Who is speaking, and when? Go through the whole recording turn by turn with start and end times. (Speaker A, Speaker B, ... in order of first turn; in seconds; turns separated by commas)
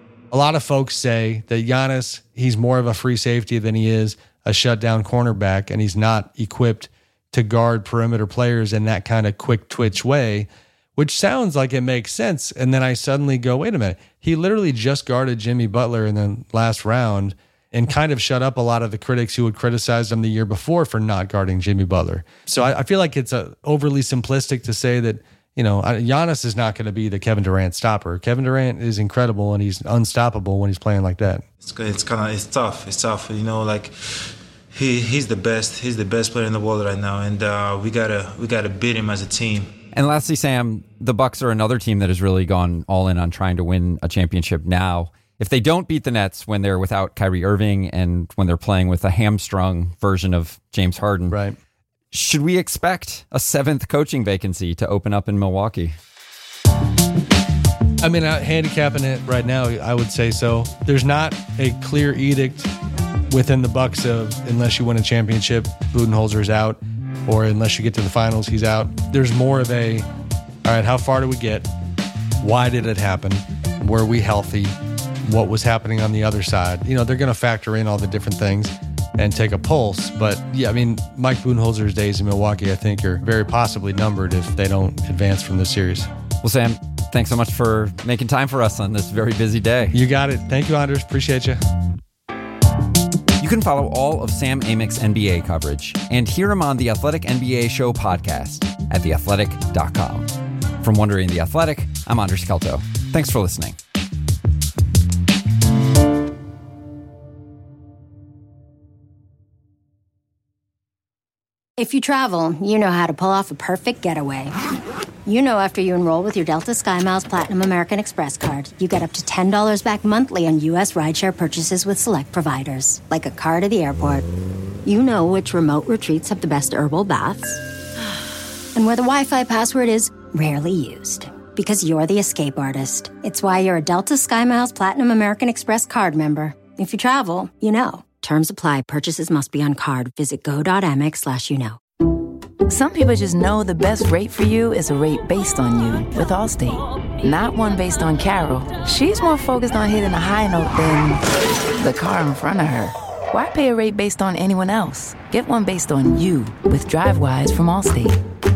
Speaker A: 0.3-31.4, Speaker B: 31.6-33.9, Speaker B: 34.7-39.7, Speaker C: 39.9-51.4, Speaker A: 51.3-51.6, Speaker C: 52.1-56.0, Speaker A: 58.0-62.7, Speaker A: 63.3-70.1, Speaker A: 70.6-71.7, Speaker A: 72.4-74.7, Speaker A: 75.2-86.1, Speaker C: 86.4-90.0, Speaker A: 89.9-91.6, Speaker C: 93.4-103.8, Speaker D: 111.8-114.5, Speaker D: 115.2-124.2, Speaker D: 124.8-127.6, Speaker D: 128.7-141.8, Speaker E: 142.7-151.2, Speaker E: 151.8-158.2